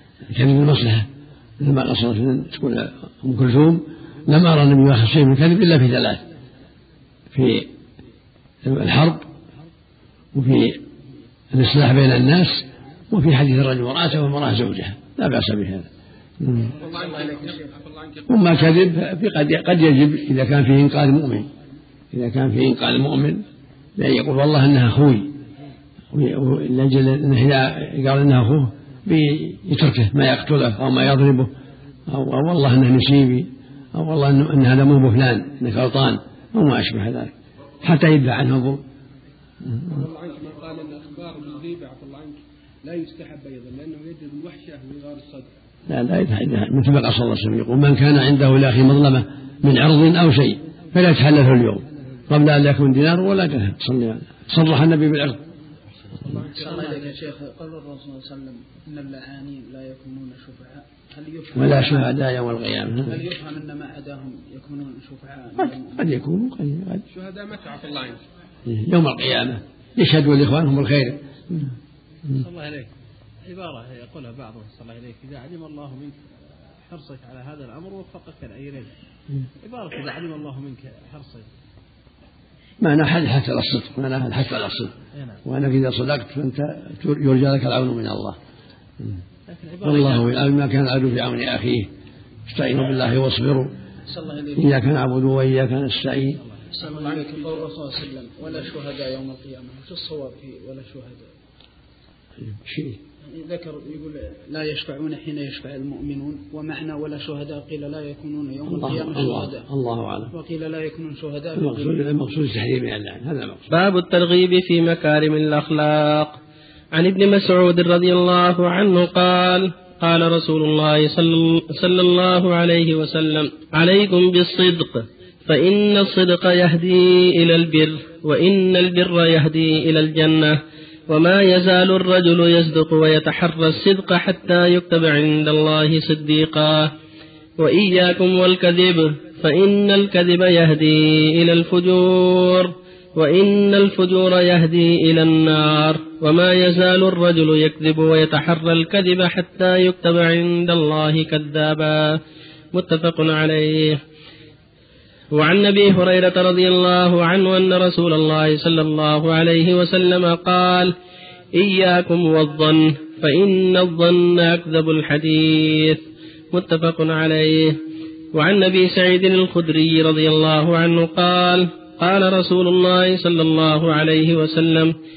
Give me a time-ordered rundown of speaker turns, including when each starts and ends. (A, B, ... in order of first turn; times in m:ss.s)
0:00.3-0:01.1 A
0:01.6-0:06.2 A
0:07.3-0:07.7 A
0:08.6-0:09.3 A
0:10.3-0:10.8 A
0:11.5-0:15.9 A
0:16.4-0:16.7 A
0:16.7-0:18.8 B
0:16.7-0:17.7 C
0:18.3-0:21.5 A
0:22.1-0:23.4 A
0:24.0-0:25.3 A
0:26.1-0:31.5 A
0:32.1-0:37.3 A
0:37.8-0:38.8 A
0:39.9-0:45.5 B
0:45.9-0:55.4 A
0:56.4-0:57.1 B
0:56.4-1:02.1 C
1:01.5-1:03.2 A
1:03.0-1:06.1 C
1:05.6-1:07.0 A
1:07.1-1:08.2 B
1:08.6-1:11.7 A
1:12.3-1:12.9 D
1:13.4-1:18.9 D
1:19.6-1:21.5 D
1:22.8-1:24.9 A
1:25.1-1:25.4 D
1:25.4-1:28.4 A
1:29.5-1:30.3 D
1:29.8-1:31.9 A
1:32.5-1:33.7 A
1:34.0-1:34.7 C
1:34.6-1:36.4 A
1:36.7-1:41.3 C
1:36.8-1:37.7 B
1:42.4-1:43.0 A
1:43.2-1:49.6 C
1:48.7-1:50.3 A
1:50.3-1:52.0 C
1:51.6-1:53.7 A
1:53.7-1:56.4 E
1:57.0-2:10.6 E
2:11.1-2:16.9 E
2:17.6-2:32.2 E
2:32.7-2:34.0 E
2:35.3-2:40.9 E
2:41.5-2:47.8 E
2:48.3-2:54.9 E